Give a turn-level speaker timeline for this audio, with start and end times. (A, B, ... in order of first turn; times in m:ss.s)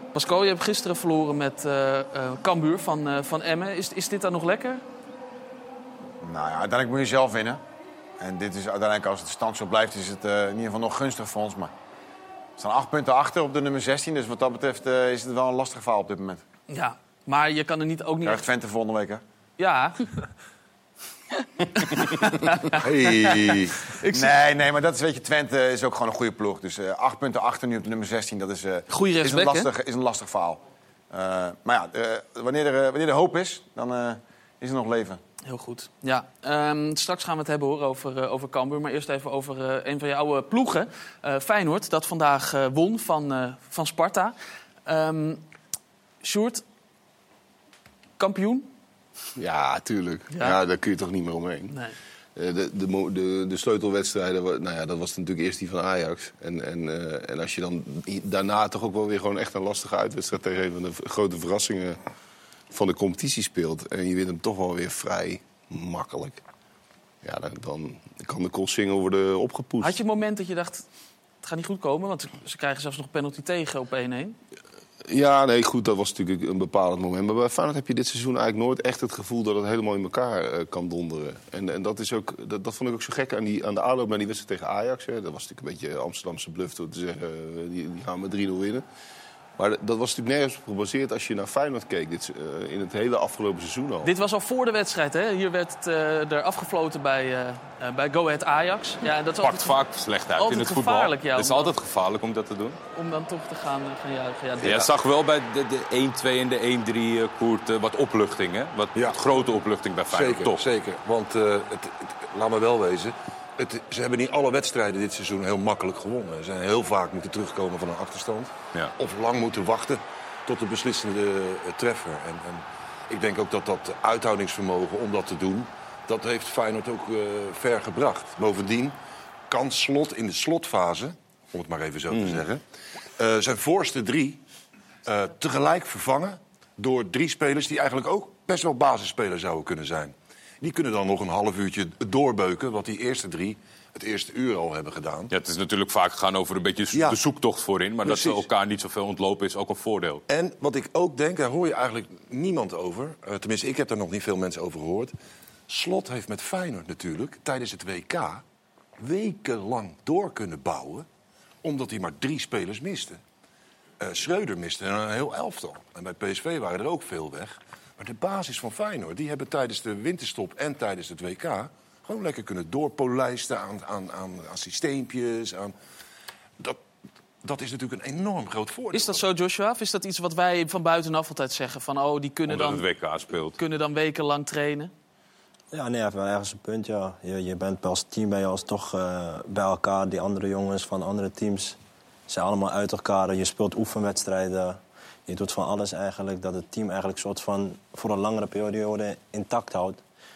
0:00.1-0:04.8 A
0:06.2-0:07.6 B
0:08.2-0:11.7 B
0:12.6-0:16.4 B
0:16.7-0:18.4 A
0:18.2-0:19.2 B
0:19.6-0:20.0 A
0:21.8-0:24.4 A
0:22.8-0:23.9 C
0:24.1-0:35.2 B
0:28.9-0:29.7 A
0:35.5-0:44.4 A
0:44.9-0:45.4 A
0:46.2-0:46.6 A
0:48.2-0:48.7 A
0:49.4-0:51.8 D
0:50.3-0:50.6 A
0:51.7-0:52.0 A
0:52.4-1:02.0 D
1:02.7-1:06.4 D
1:07.2-1:10.0 D
1:09.8-1:10.9 A
1:11.4-1:14.4 A
1:15.0-1:28.8 D
1:29.6-1:34.1 D
1:34.0-1:39.8 A
1:39.4-1:42.8 E
1:40.4-1:41.7 A
1:43.0-1:44.7 A
1:44.6-1:44.9 C
1:44.6-1:50.6 E
1:49.0-1:49.2 C
1:50.1-2:09.0 C
2:09.5-2:12.6 C
2:13.2-2:14.4 C
2:15.1-2:25.3 C
2:25.3-2:30.2 E
2:26.9-2:27.2 C
2:28.0-2:28.4 C
2:30.3-2:35.1 C
2:35.7-2:38.4 C
2:39.0-2:41.1 C
2:41.6-2:43.2 C
2:44.0-2:55.7 C
2:57.4-2:59.2 C
2:58.9-3:02.8 A
3:02.5-3:03.6 E
3:03.6-3:04.9 A
3:05.7-3:11.8 F
3:12.3-3:20.0 F